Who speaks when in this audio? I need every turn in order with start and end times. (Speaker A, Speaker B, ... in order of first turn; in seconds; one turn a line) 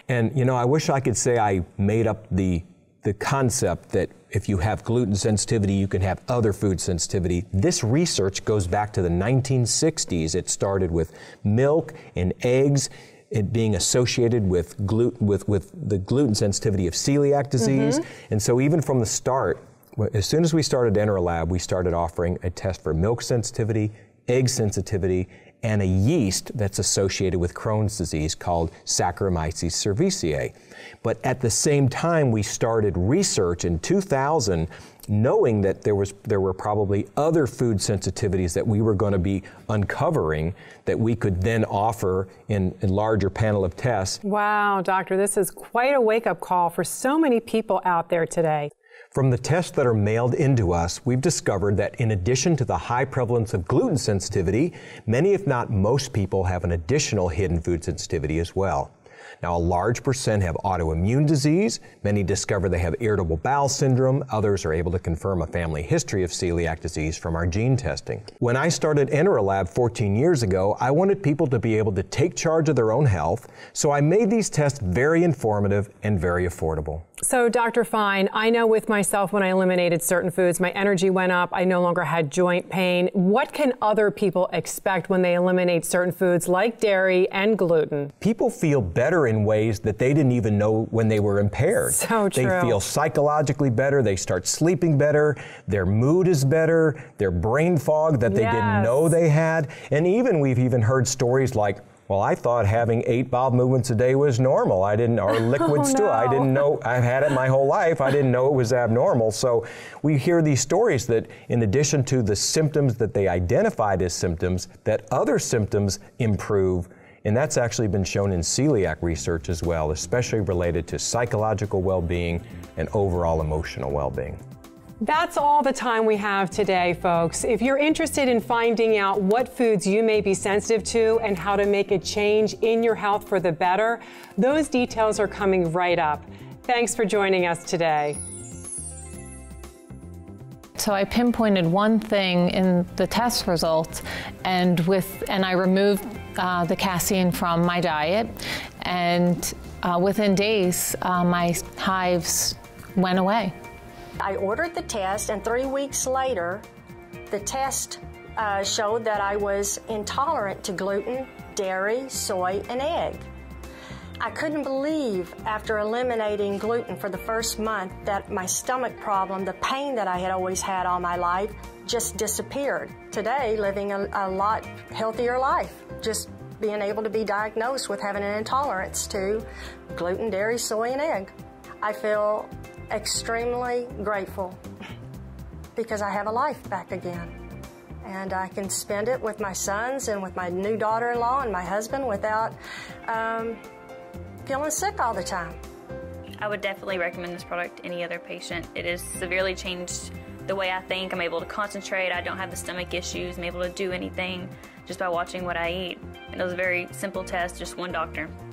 Speaker A: 0.1-44.2
Speaker B: 44.2-48.7
Speaker A: 49.1-77.0
Speaker B: 77.2-88.1
Speaker A: 88.2-124.4
Speaker B: 91.8-92.8
Speaker B: 98.3-99.1
Speaker B: 105.6-106.5
Speaker B: 125.0-138.2
Speaker C: 140.8-153.5
Speaker D: 154.2-156.7
Speaker D: 157.3-163.2
Speaker D: 164.2-184.6
Speaker D: 185.8-187.3
Speaker D: 188.1-192.6
Speaker D: 193.1-193.6
Speaker D: 194.5-195.6
Speaker E: 196.4-208.3